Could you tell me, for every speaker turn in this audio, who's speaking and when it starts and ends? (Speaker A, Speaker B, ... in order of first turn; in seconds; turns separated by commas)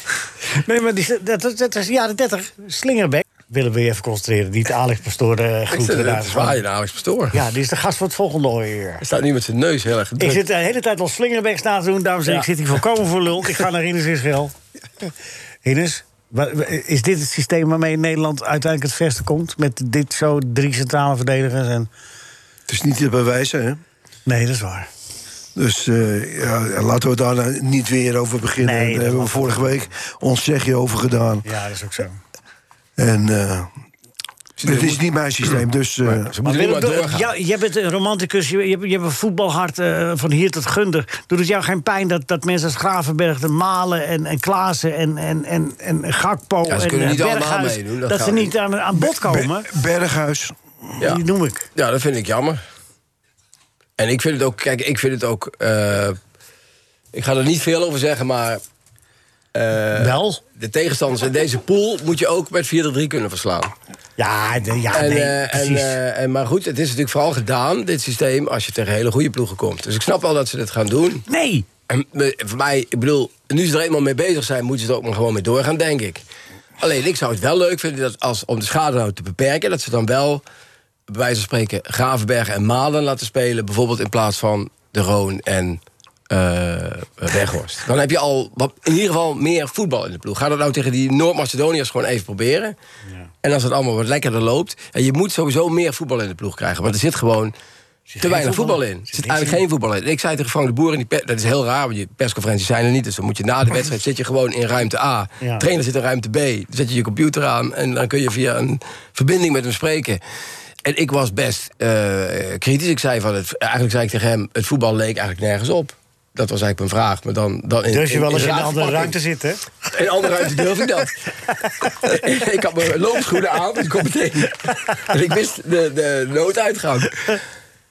Speaker A: 0.6-6.6, Speaker B: 5.7-7.4, Speaker A: 7.3-9.0, Speaker B: 9.0-10.4, Speaker A: 10.2-14.6, Speaker A: 15.6-21.9, Speaker C: 22.7-23.8, Speaker A: 24.3-24.9, Speaker C: 25.6-31.4, Speaker A: 28.6-29.8, Speaker A: 31.4-32.2, Speaker C: 33.0-33.7, Speaker B: 34.6-35.0, Speaker C: 34.6-36.3, Speaker B: 36.1-37.3, Speaker A: 36.4-49.7, Speaker B: 46.7-48.5, Speaker C: 49.0-50.9, Speaker A: 51.0-51.7, Speaker B: 51.8-52.6, Speaker B: 54.0-56.2, Speaker B: 57.1-58.6, Speaker B: 59.5-63.7, Speaker A: 59.9-60.4, Speaker A: 64.2-66.0, Speaker B: 64.9-71.2, Speaker A: 71.3-71.7, Speaker B: 71.9-76.2, Speaker B: 76.8-80.4, Speaker B: 81.1-92.8, Speaker B: 93.4-97.5, Speaker A: 98.1-99.6, Speaker B: 98.2-110.2, Speaker A: 105.4-105.6, Speaker B: 110.8-119.1, Speaker A: 117.9-119.7, Speaker B: 119.9-121.1, Speaker B: 121.8-127.4